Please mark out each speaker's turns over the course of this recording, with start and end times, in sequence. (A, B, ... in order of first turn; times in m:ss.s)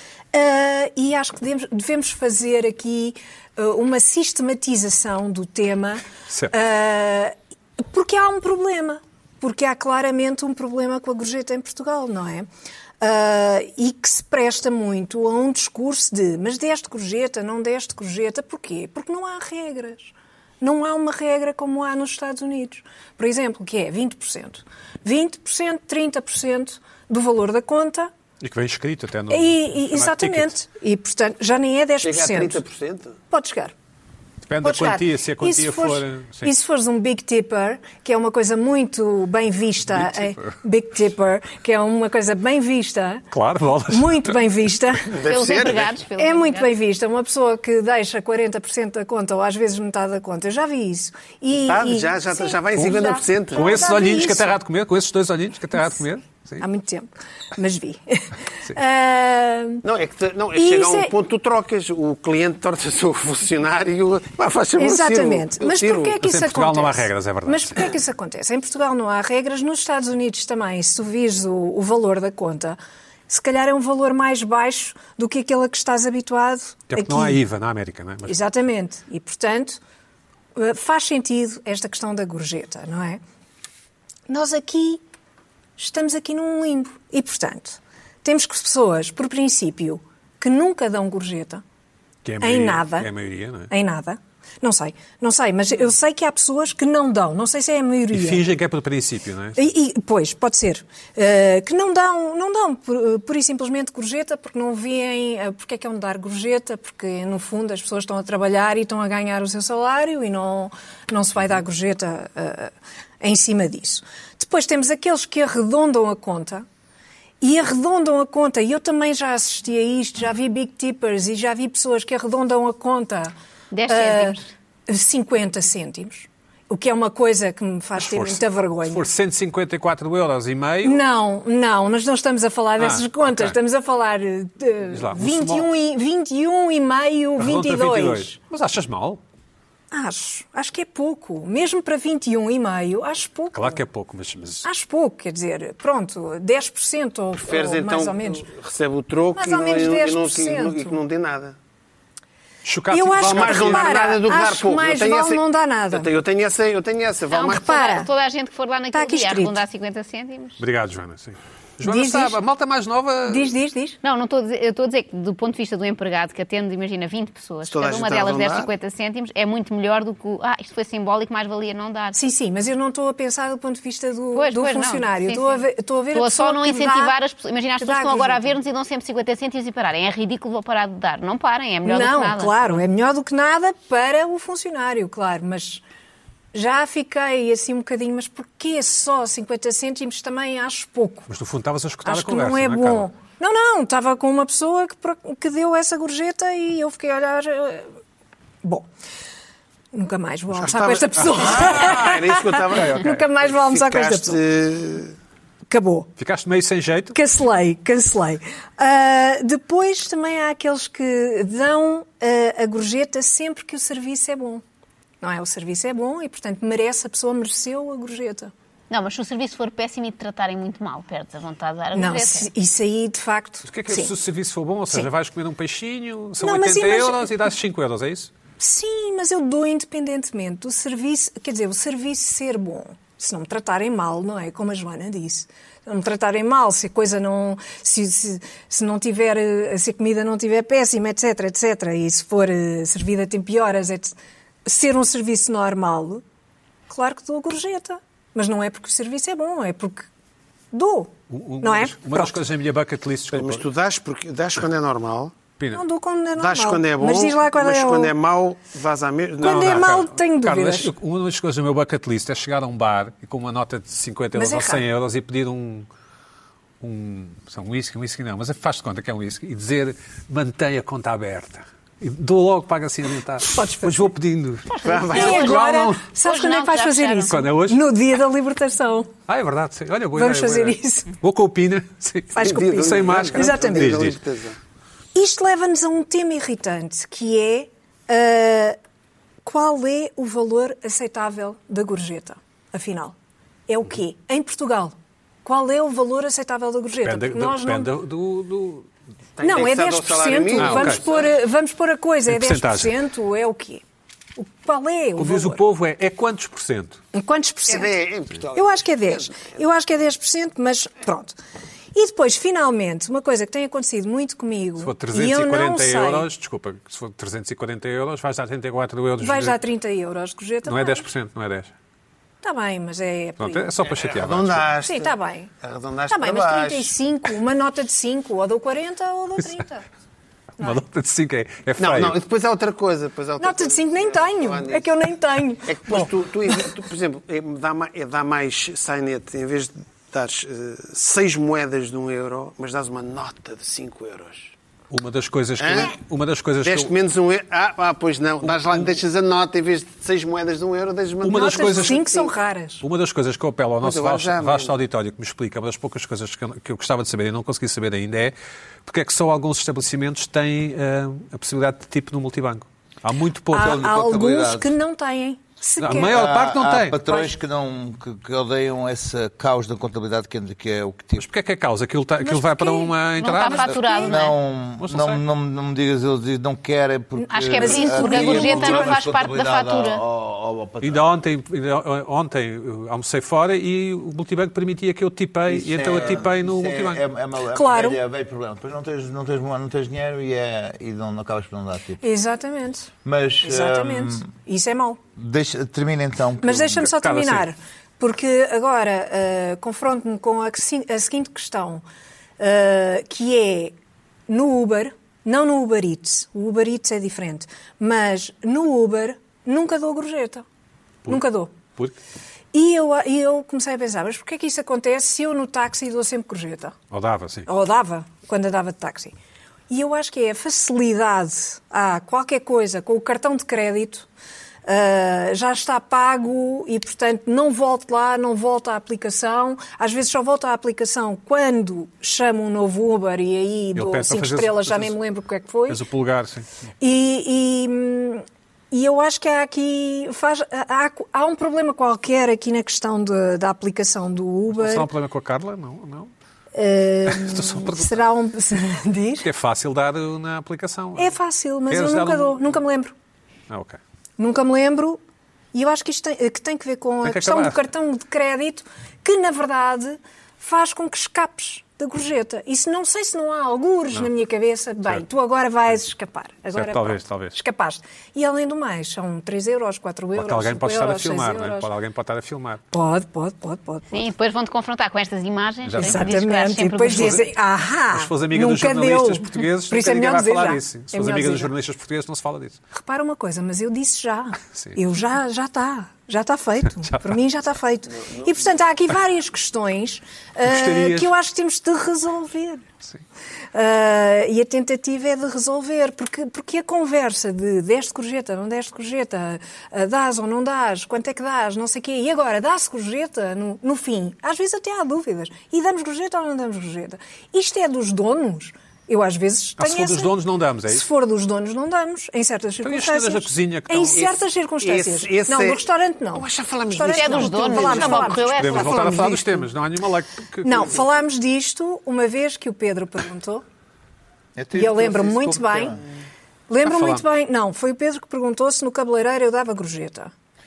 0:00.3-0:12.5 A
0:06.3-0:06.5 B
0:13.0-0:28.1 A
0:28.4-0:30.6 B
0:29.3-0:32.6 A
0:32.0-0:33.2 C
0:33.3-0:33.7 A
0:34.5-0:36.5 B
0:34.6-0:43.2 A
0:39.9-0:40.6 B
0:43.3-0:44.4 B
0:43.9-0:45.2 A
0:45.1-0:46.0 C
0:45.2-0:46.7 D
0:46.2-0:54.5 A
0:51.6-0:53.8 C
0:53.5-0:56.6 B
0:56.6-0:59.8 A
0:59.8-1:06.2 C
1:00.5-1:01.1 A
1:04.8-1:17.4 A
1:06.2-1:07.9 B
1:16.9-1:18.4 B
1:18.2-1:19.8 A
1:20.6-1:23.2 A
1:24.3-1:25.0 A
1:25.8-1:31.6 A
1:32.2-1:33.7 B
1:32.4-1:33.1 A
1:33.7-1:38.4 A
1:38.1-1:39.6 B
1:39.6-1:56.6 A
1:57.4-2:03.3 A
2:03.7-2:04.4 D
2:03.9-2:09.1 A
2:08.0-2:11.0 B
2:10.8-2:18.4 A
2:12.8-2:13.6 B
2:14.9-2:15.7 B
2:17.4-2:19.2 B
2:19.9-2:23.8 A
2:23.5-2:24.6 B
2:24.6-2:28.4 A
2:27.4-2:31.6 C
2:29.3-2:31.0 A
2:32.6-2:34.1 B
2:32.9-2:36.1 A
2:33.2-2:37.7 C
2:37.3-2:40.6 D
2:37.5-2:38.1 A
2:38.9-2:39.6 A
2:40.6-2:43.5 B
2:41.8-2:42.4 A
2:43.3-2:44.0 A
2:44.0-2:52.2 D
2:47.7-2:48.7 C
2:52.1-2:57.2 A
2:54.3-3:02.8 D
2:57.8-2:58.5 A
3:01.8-3:05.8 A
3:06.5-3:11.3 A
3:11.3-3:13.1 B
3:12.0-3:17.9 A
3:19.9-3:24.4 A
3:20.5-3:25.1 C
3:22.7-3:23.2 B
3:25.7-3:26.1 A
3:26.2-3:27.2 B
3:27.1-3:34.6 A
3:35.2-3:38.5 A
3:38.9-3:42.5 D
3:41.9-3:44.1 A
3:43.6-3:48.3 B
3:46.4-3:47.3 A
3:48.6-4:06.2 A
4:06.9-4:10.1 A
4:10.7-4:12.3 A
4:11.3-4:13.6 B
4:13.3-4:15.3 C
4:15.6-4:15.8 B
4:15.7-4:18.1 A
4:16.4-4:20.0 C
4:19.4-4:20.9 A
4:19.4-4:25.9 B
4:24.3-4:24.8 A
4:26.8-4:36.0 B
4:33.4-4:34.1 A
4:34.7-4:37.3 D
4:34.8-4:35.4 C
4:35.1-4:39.1 A
4:37.3-4:37.8 B
4:39.3-4:44.2 B
4:40.1-4:41.1 A
4:42.3-4:44.0 A
4:42.4-4:44.6 C
4:45.1-4:48.8 A
4:49.4-4:53.1 A
4:53.7-4:57.9 A
4:57.0-4:58.9 B
4:59.4-5:01.3 C
4:59.4-5:03.8 A
5:00.6-5:01.0 B
5:02.3-5:02.9 B
5:04.4-5:05.6 A
5:05.2-5:07.0 B
5:07.1-5:08.0 A
5:07.7-5:09.5 C
5:08.5-5:11.3 A
5:11.9-5:16.3 A
5:14.8-5:19.6 B
5:19.2-5:21.0 A
5:20.6-5:21.7 B
5:22.4-5:23.8 A
5:23.4-5:24.7 B
5:23.8-5:26.9 C
5:24.8-5:25.5 A
5:26.1-5:29.8 A
5:30.6-5:32.2 B
5:31.8-5:34.9 C
5:33.4-5:36.1 A
5:35.6-5:44.5 C
5:44.9-5:46.9 B
5:45.6-5:45.9 C
5:46.6-5:52.3 C
5:48.4-5:48.9 B
5:51.2-5:52.0 B
5:51.4-5:52.8 A
5:52.8-5:58.3 B
5:53.8-5:54.7 C
5:58.8-6:03.8 B
6:03.5-6:06.2 A
6:03.5-6:04.7 E
6:05.8-6:07.0 B
6:05.9-6:11.3 E
6:07.0-6:07.3 A
6:11.2-6:13.8 B
6:12.2-6:12.9 A
6:13.2-6:14.4 D
6:13.5-6:14.2 A
6:14.0-6:21.0 E
6:14.8-6:15.2 B
6:17.2-6:19.0 A
6:17.3-6:20.0 D
6:20.8-6:27.0 B
6:25.5-6:32.0 E
6:27.5-6:28.0 A
6:32.0-6:35.0 A
6:33.0-6:34.3 E
6:35.2-6:36.8 E
6:36.4-6:41.8 A
6:36.8-6:37.5 B
6:42.4-6:43.7 A
6:44.3-6:50.4 A
6:51.0-6:51.5 A
6:52.5-6:56.8 A
6:56.9-6:57.5 B
6:57.5-6:59.1 A
6:59.7-7:04.1 A
7:04.6-7:15.8 A
7:13.7-7:15.0 B
7:15.7-7:16.4 B
7:16.8-7:24.9 A
7:24.5-7:26.1 B
7:26.5-7:29.3 A
7:27.1-7:28.0 B
7:29.2-7:31.1 B
7:31.0-7:32.9 A
7:31.7-7:32.5 B
7:33.5-7:33.8 B
7:34.2-7:35.0 A
7:35.5-7:51.7 A
7:37.0-7:37.6 B
7:46.5-7:47.4 B
7:50.1-7:52.6 B
7:52.7-7:54.0 A
7:53.9-7:57.2 D
7:55.6-7:56.2 B
7:55.7-8:01.5 A
7:57.9-8:02.6 B
8:02.7-8:12.6 A
8:04.5-8:04.8 B
8:06.8-8:07.2 B
8:08.0-8:08.4 C
8:10.4-8:11.1 B
8:13.5-8:30.1 A
8:29.6-8:30.9 B
8:30.6-8:39.2 A
8:32.6-8:34.0 B
8:33.9-8:38.9 C
8:36.9-8:39.1 D
8:38.2-8:40.8 B
8:40.4-8:43.4 A
8:44.4-8:45.8 E
8:44.5-8:45.8 A
8:46.5-8:50.1 A
8:46.6-8:47.0 B